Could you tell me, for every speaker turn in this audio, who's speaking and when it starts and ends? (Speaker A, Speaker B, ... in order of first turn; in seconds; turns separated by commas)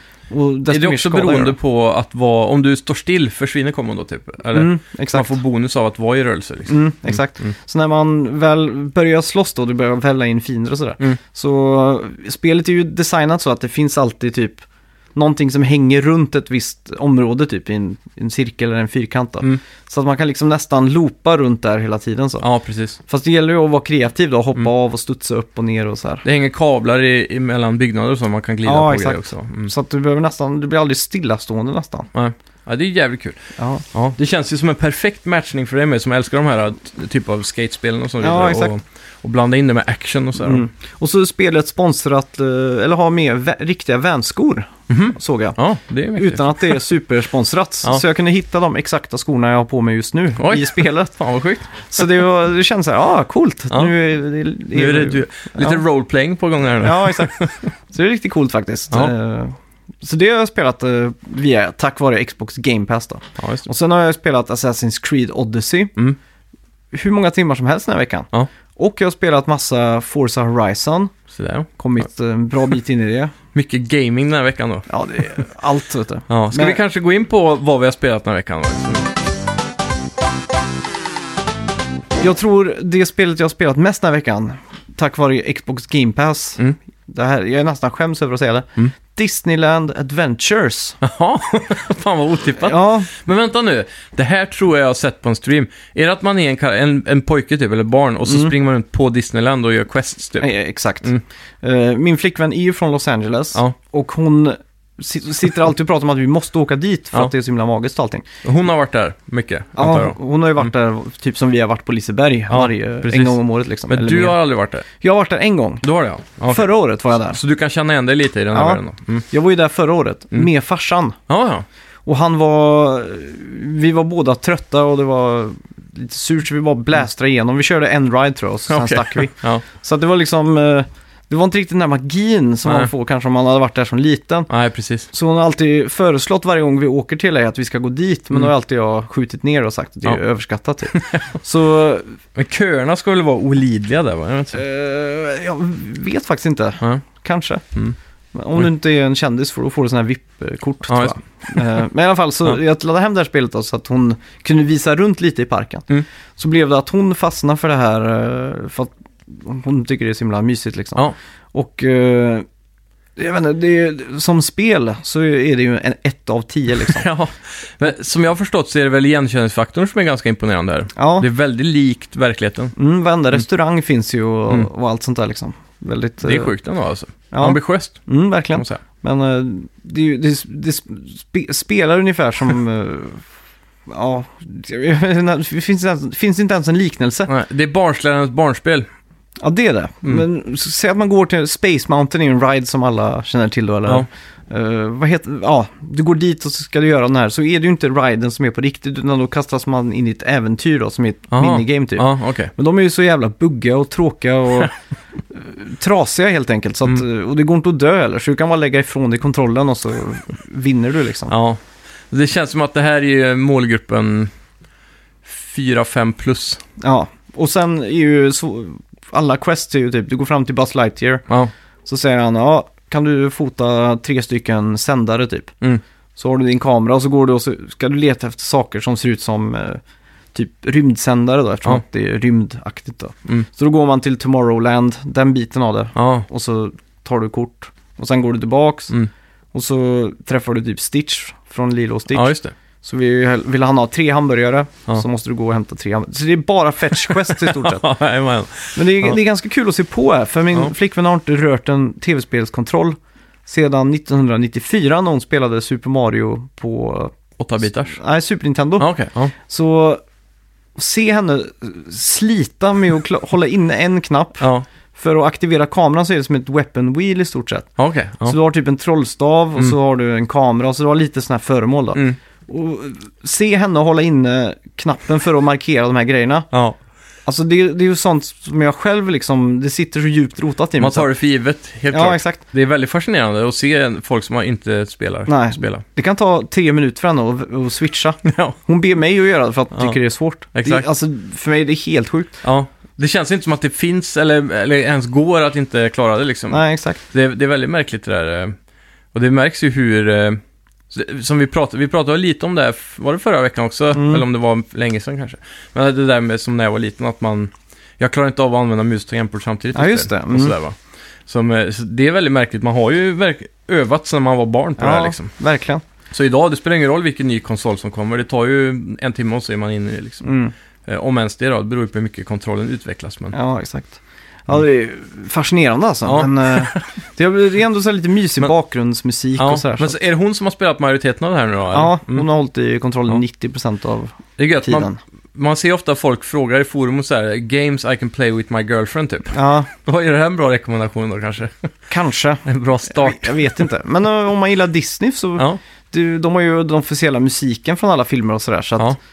Speaker A: 0.3-1.6, Speaker B: 0.7-7.5, Speaker A: 4.5-5.4, Speaker A: 6.7-14.6, Speaker A: 15.2-22.4, Speaker B: 22.4-23.0, Speaker A: 23.1-26.2, Speaker B: 26.2-29.7, Speaker A: 28.6-32.1, Speaker B: 32.1-33.4, Speaker A: 33.6-33.8, Speaker B: 33.9-40.6, Speaker A: 38.2-38.8, Speaker A: 40.4-45.6, Speaker B: 44.9-46.9, Speaker A: 46.2-51.1, Speaker B: 50.4-52.0, Speaker A: 51.8-55.8, Speaker B: 54.7-57.7, Speaker A: 56.8-66.0, Speaker B: 63.4-63.7, Speaker A: 66.9-71.1, Speaker B: 71.3-71.7, Speaker A: 71.8-73.3, Speaker B: 73.5-74.9, Speaker A: 74.9-76.8, Speaker B: 76.3-79.1, Speaker A: 82.2-91.0, Speaker B: 91.0-100.5, Speaker A: 92.6-93.1, Speaker A: 98.3-98.5, Speaker A: 100.4-108.2, Speaker B: 108.4-110.7, Speaker A: 109.8-114.4, Speaker B: 112.5-114.9, Speaker A: 115.0-115.8, Speaker B: 115.8-119.3, Speaker A: 116.5-117.4, Speaker A: 118.5-121.2, Speaker B: 121.3-121.7, Speaker A: 122.1-134.5, Speaker B: 128.7-129.6, Speaker B: 132.7-132.9, Speaker B: 134.5-135.1, Speaker A: 135.1-142.2, Speaker B: 140.9-141.2, Speaker B: 142.3-144.6, Speaker A: 144.5-147.7, Speaker A: 148.3-162.4, Speaker B: 150.9-151.8, Speaker A: 163.2-167.1, Speaker B: 166.8-172.7, Speaker A: 171.0-171.3, Speaker A: 172.8-176.5, Speaker B: 176.2-178.0, Speaker A: 177.3-183.2, Speaker B: 178.5-178.8, Speaker A: 183.9-187.3, Speaker B: 187.3-188.9, Speaker A: 189.4-204.7, Speaker B: 201.3-202.5, Speaker A: 205.3-211.3, Speaker B: 211.3-211.6, Speaker B: 212.1-214.3, Speaker B: 215.2-216.6, Speaker A: 216.8-221.2, Speaker A: 221.8-225.5, Speaker A: 226.2-229.8, Speaker A: 230.3-238.9, Speaker B: 235.9-236.3, Speaker A: 239.5-247.9, Speaker B: 242.1-242.5, Speaker B: 246.9-249.2, Speaker A: 248.7-257.1, Speaker B: 257.4-258.0, Speaker A: 257.9-258.9, Speaker B: 258.8-259.3, Speaker A: 259.5-260.0, Speaker A: 260.8-267.7, Speaker B: 264.4-264.7, Speaker B: 267.8-268.4, Speaker A: 268.2-276.5, Speaker B: 276.5-276.8, Speaker A: 277.3-281.1, Speaker B: 280.8-285.8, Speaker A: 281.9-282.4, Speaker A: 285.3-292.4, Speaker B: 288.2-288.6, Speaker B: 290.6-290.9, Speaker B: 292.4-298.5, Speaker A: 296.5-297.0, Speaker B: 299.1-315.3, Speaker A: 303.9-304.2, Speaker A: 309.7-310.6, Speaker A: 314.8-315.8, Speaker B: 316.1-320.3, Speaker A: 320.2-320.5, Speaker B: 320.9-323.4, Speaker A: 323.3-330.0, Speaker B: 326.1-326.9, Speaker B: 329.4-332.2, Speaker A: 331.7-335.0, Speaker B: 334.4-341.7, Speaker A: 339.3-339.7, Speaker A: 341.9-349.0, Speaker B: 342.5-343.7